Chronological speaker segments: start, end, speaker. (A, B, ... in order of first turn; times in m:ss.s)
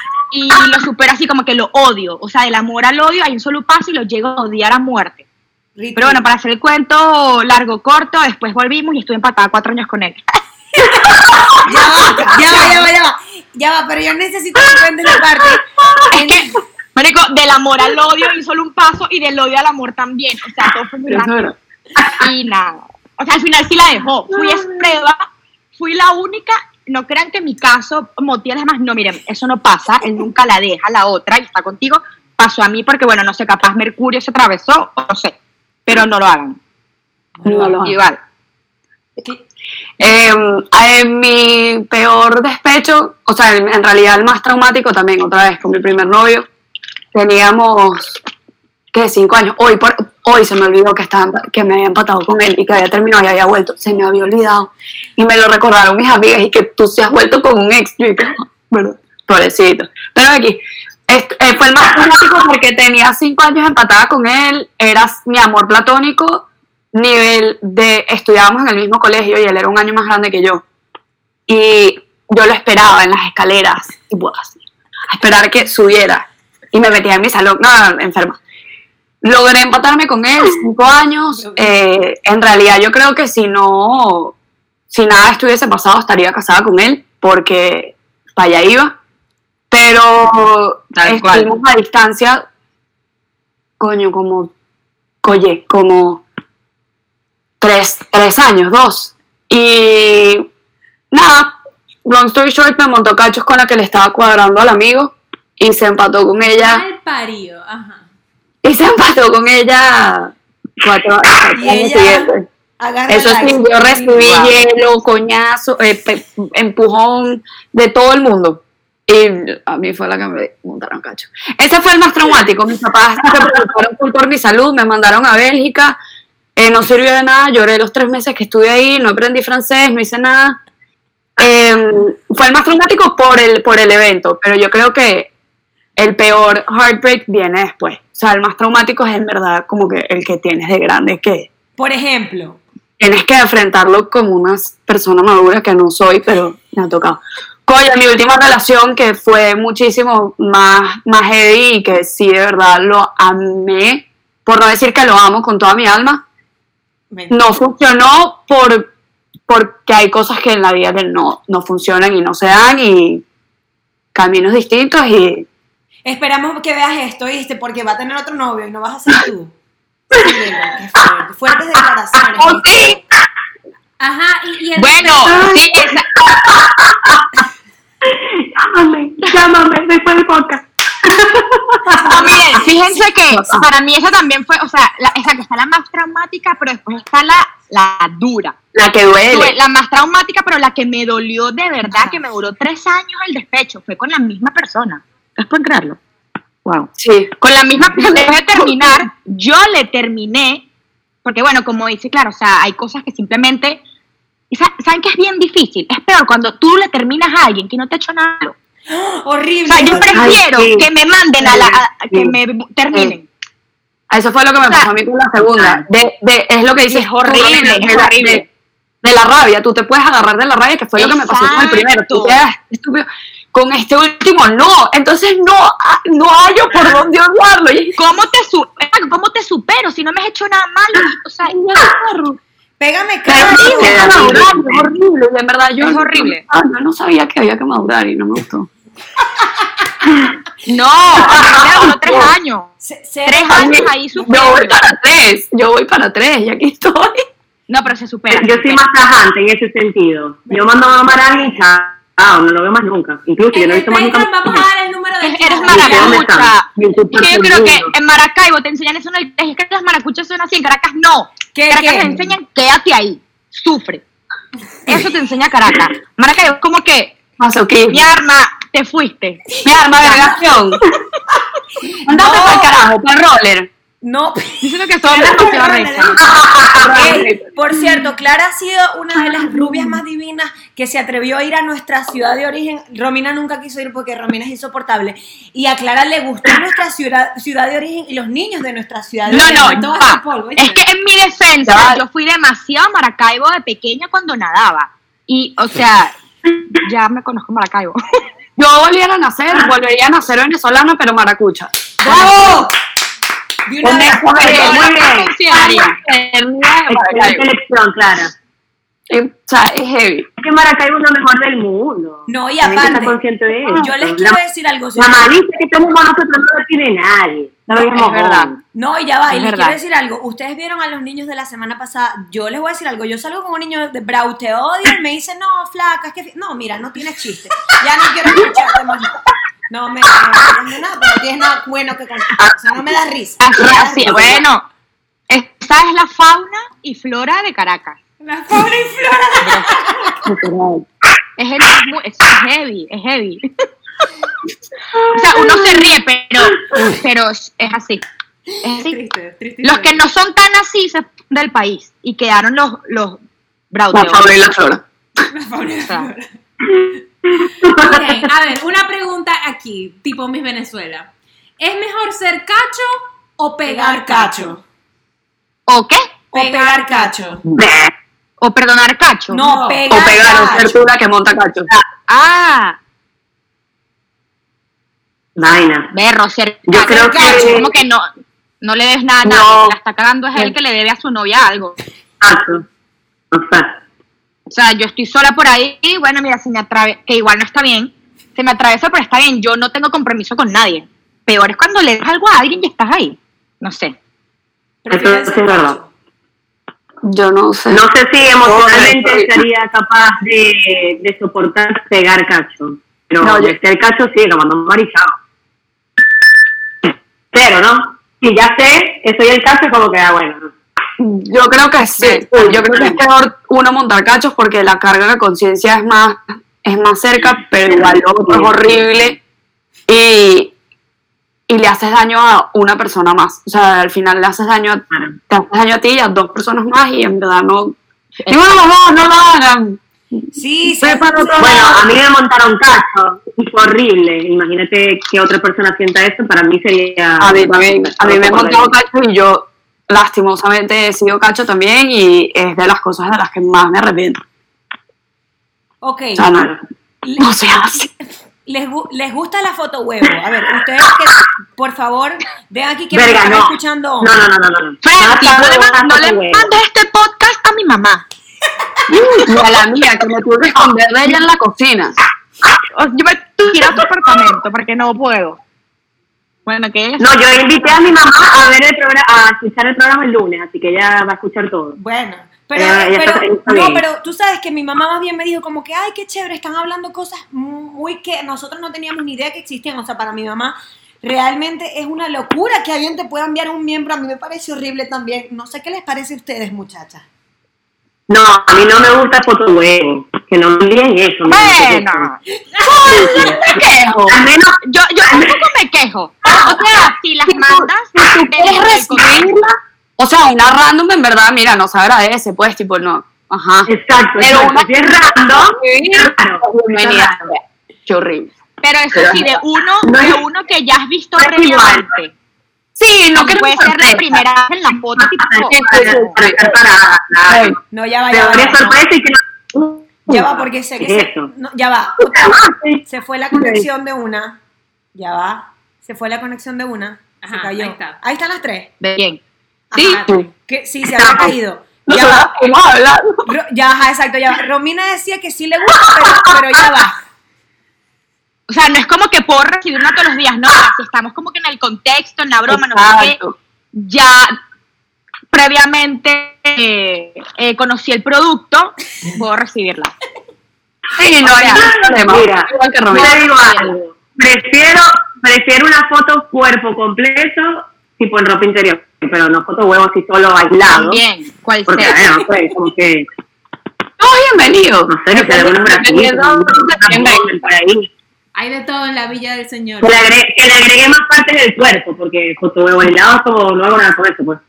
0:00.3-0:05.2 A
0:05.8-0:06.2 B
0:06.0-0:10.2 A
0:11.0-0:11.6 C
0:11.6-0:16.6 B
0:12.2-0:12.9 A
0:16.1-0:21.5 A
0:21.1-0:22.0 D
0:22.2-0:25.2 A
0:25.8-0:35.3 A
0:35.8-0:36.6 A
0:37.4-0:37.7 B
0:37.4-0:38.0 D
0:37.5-0:38.2 A
0:40.0-0:46.5 D
0:47.1-0:48.2 D
0:48.9-1:10.6 D
1:11.5-1:18.4 D
1:19.2-1:24.4 D
1:24.9-1:29.0 D
1:29.7-1:32.4 D
1:31.0-1:31.5 A
1:33.8-1:34.5 D
1:35.2-1:36.2 D
1:37.6-1:40.5 D
1:41.1-1:46.8 D
1:46.5-1:48.0 E
1:48.6-1:52.4 D
1:51.6-1:54.5 B
1:53.1-2:06.0 D
2:06.6-2:10.6 D
2:11.4-2:15.3 D
2:16.0-2:21.5 D
2:21.8-2:22.6 B
2:23.0-2:36.2 D
2:37.1-2:37.4 B
2:37.3-2:38.9 D
2:39.5-2:43.2 D
2:44.1-2:45.5 D
2:46.0-2:49.5 B
2:50.1-2:53.0 B
2:52.4-2:52.9 D
2:54.0-2:55.6 E
2:54.8-2:56.1 A
2:55.3-2:57.2 C
2:58.0-3:02.2 C
3:01.9-3:02.6 B
3:02.0-3:08.6 A
3:03.3-3:03.7 D
3:08.7-3:09.6 D
3:09.3-3:16.0 A
3:11.9-3:12.2 B
3:16.9-3:18.3 D
3:17.4-3:20.6 A
3:21.2-3:23.8 A
3:24.5-3:28.5 A
3:28.9-3:30.4 B
3:29.7-3:33.2 A
3:30.1-3:30.8 C
3:30.1-3:30.8 D
3:31.4-3:32.4 D
3:34.1-3:38.4 D
3:36.9-3:38.4 A
3:39.0-3:48.0 D
3:41.0-3:42.4 A
3:48.0-3:51.6 A
3:51.5-3:52.4 D
3:52.8-3:54.4 B
3:53.2-3:58.7 D
3:53.6-3:54.8 C
3:55.8-3:56.4 A
4:00.6-4:02.7 A
4:01.3-4:01.8 C
4:01.6-4:02.3 D
4:02.8-4:04.3 B
4:03.2-4:04.8 A
4:03.5-4:07.2 D
4:07.7-4:08.8 A
4:08.3-4:14.7 C
4:10.5-4:11.4 B
4:13.5-4:16.3 E
4:15.2-4:24.0 A
4:15.7-4:17.9 C
4:21.5-4:22.4 B
4:24.8-4:27.2 A
4:27.4-4:28.1 D
4:27.9-4:30.4 A
4:29.6-4:30.8 D
4:31.8-4:32.7 B
4:32.0-4:33.7 D
4:34.0-4:49.8 B
4:34.6-4:36.2 A
4:35.2-4:36.1 E
4:36.2-4:36.9 C
4:36.7-4:37.5 D
4:49.3-4:56.1 A
4:49.7-4:50.8 E
4:51.6-4:52.0 D
4:56.7-4:58.0 A
4:58.6-5:02.7 D
5:02.0-5:02.7 B
5:03.6-5:04.6 B
5:03.8-5:04.9 D
5:04.3-5:05.4 C
5:04.4-5:06.0 A
5:05.5-5:07.4 D
5:06.9-5:08.3 C
5:09.1-5:10.3 D
5:10.4-5:14.4 C
5:12.3-5:15.4 B
5:14.9-5:18.6 C
5:17.7-5:18.5 D
5:18.7-5:34.4 B
5:19.3-5:19.8 D
5:33.4-5:34.6 A
5:33.6-5:34.4 D
5:35.3-5:38.0 A
5:38.2-5:39.6 E
5:39.4-5:39.7 A
5:39.7-5:40.2 B
5:40.2-5:40.8 D
5:41.4-5:43.5 A
5:45.1-5:48.0 A
5:48.6-5:49.0 A
5:48.8-5:50.0 E
5:49.6-5:53.2 A
5:53.7-5:54.4 A
5:53.9-5:54.8 D
5:55.3-5:56.3 E
5:57.4-5:57.8 C
5:57.6-6:04.6 E
6:03.6-6:04.6 B
6:05.7-6:06.1 A
6:06.3-6:07.4 B
6:06.3-6:07.4 E
6:07.5-6:07.9 C
6:08.4-6:09.4 A
6:09.3-6:10.7 B
6:09.4-6:09.8 E
6:09.9-6:11.7 D
6:11.7-6:12.8 A
6:15.4-6:15.9 C
6:15.9-6:18.1 A
6:16.7-6:17.6 C
6:16.8-6:17.7 D
6:17.0-6:17.6 B
6:18.6-6:21.8 A
6:19.2-6:19.7 D
6:22.2-6:22.6 C
6:23.3-6:23.8 C
6:24.5-6:34.0 A
6:34.8-6:35.9 B
6:34.9-6:35.8 C
6:37.0-6:37.8 D
6:37.7-6:45.1 C
6:38.4-6:39.3 D
6:43.2-6:43.6 D
6:47.3-6:50.5 C
6:51.0-6:59.2 D
6:52.0-6:53.0 C
6:58.3-6:58.5 C
6:59.9-7:00.5 D
7:01.5-7:09.8 D
7:10.3-7:11.8 B
7:10.8-7:11.8 D
7:11.4-7:18.7 C
7:17.2-7:24.2 D
7:25.8-7:26.3 B
7:26.2-7:26.5 D
7:27.0-7:27.9 B
7:27.2-7:27.9 D
7:28.4-7:34.2 B
7:32.9-7:36.5 C
7:34.8-7:38.0 A
7:38.9-7:42.0 D
7:42.7-7:45.4 A
7:46.4-7:47.1 A
7:47.0-7:51.8 C
7:51.8-8:07.0 B
7:52.6-7:53.8 C
8:08.1-8:12.1 C
8:11.2-8:12.2 A
8:12.6-8:13.1 B
8:12.8-8:13.5 A
8:13.0-8:14.2 D
8:14.1-8:15.4 C
8:14.6-8:19.3 A
8:16.3-8:28.3 D
8:23.6-8:27.3 C
8:28.6-8:32.1 A
8:28.9-8:29.2 D
8:29.8-8:30.2 C
8:31.2-8:31.9 C
8:32.8-8:34.2 D
8:33.1-8:36.1 A
8:35.0-8:37.6 C
8:35.5-8:36.5 D
8:37.3-8:37.6 D
8:37.7-8:38.8 B
8:38.1-8:41.3 C
8:40.1-8:44.4 B
8:42.5-8:42.8 C
8:43.3-8:43.6 C
8:44.9-8:48.7 B
8:47.2-8:48.0 E
8:48.8-8:49.2 A
8:49.7-8:52.3 B
8:49.7-8:50.3 E
8:51.0-8:51.3 A
8:51.9-8:53.3 D
8:53.2-8:57.0 B
8:55.8-8:56.9 D
8:58.5-9:03.2 A
9:02.5-9:03.4 D
9:03.7-9:04.4 A
9:05.3-9:09.9 A
9:11.0-9:13.1 D
9:11.2-9:11.7 A
9:11.4-9:21.0 C
9:12.9-9:13.7 A
9:20.7-9:22.3 A
9:21.7-9:23.0 C
9:24.0-9:27.3 D
9:24.9-9:27.9 C
9:28.3-9:30.1 E
9:29.8-9:34.4 C